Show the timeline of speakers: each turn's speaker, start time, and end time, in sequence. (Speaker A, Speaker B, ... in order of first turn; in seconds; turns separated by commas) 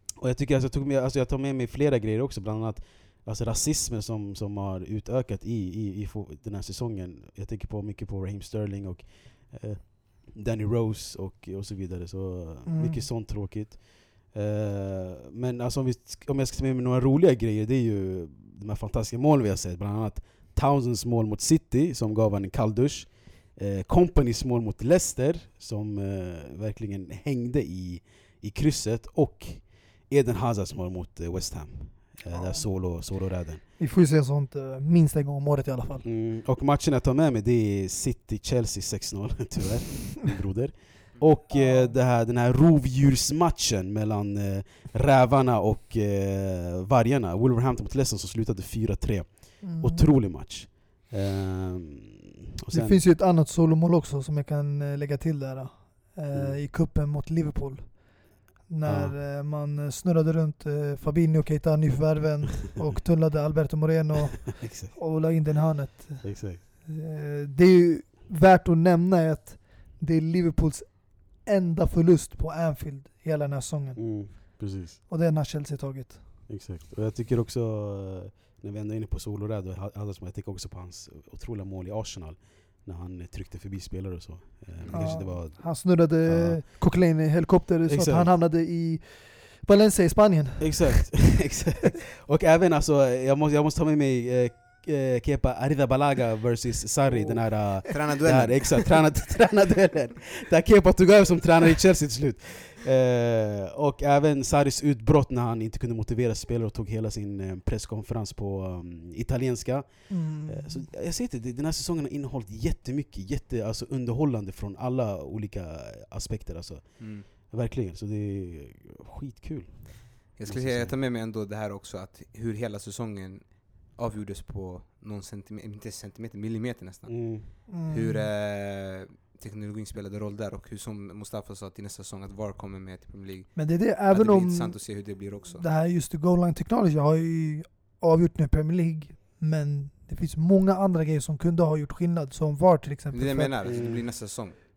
Speaker A: 0.2-33.6, Speaker B: 12.7-13.1, Speaker B: 32.3-33.1, Speaker B: 33.8-36.0, Speaker A: 36.0-53.0, Speaker B: 41.5-42.0, Speaker B: 49.6-50.0, Speaker B: 52.7-76.2, Speaker A: 56.3-56.6, Speaker A: 58.8-59.1, Speaker A: 64.6-65.0, Speaker A: 66.2-66.6, Speaker A: 74.0-75.0, Speaker A: 76.5-86.6, Speaker C: 84.8-85.2, Speaker B: 84.9-91.2, Speaker A: 87.9-88.3, Speaker A: 90.6-121.0, Speaker C: 97.9-99.0, Speaker B: 110.1-110.9, Speaker C: 117.0-117.2, Speaker C: 120.3-135.6, Speaker A: 127.1-127.6, Speaker B: 127.7-128.3, Speaker B: 133.5-143.5, Speaker C: 143.1-144.5, Speaker A: 143.6-144.0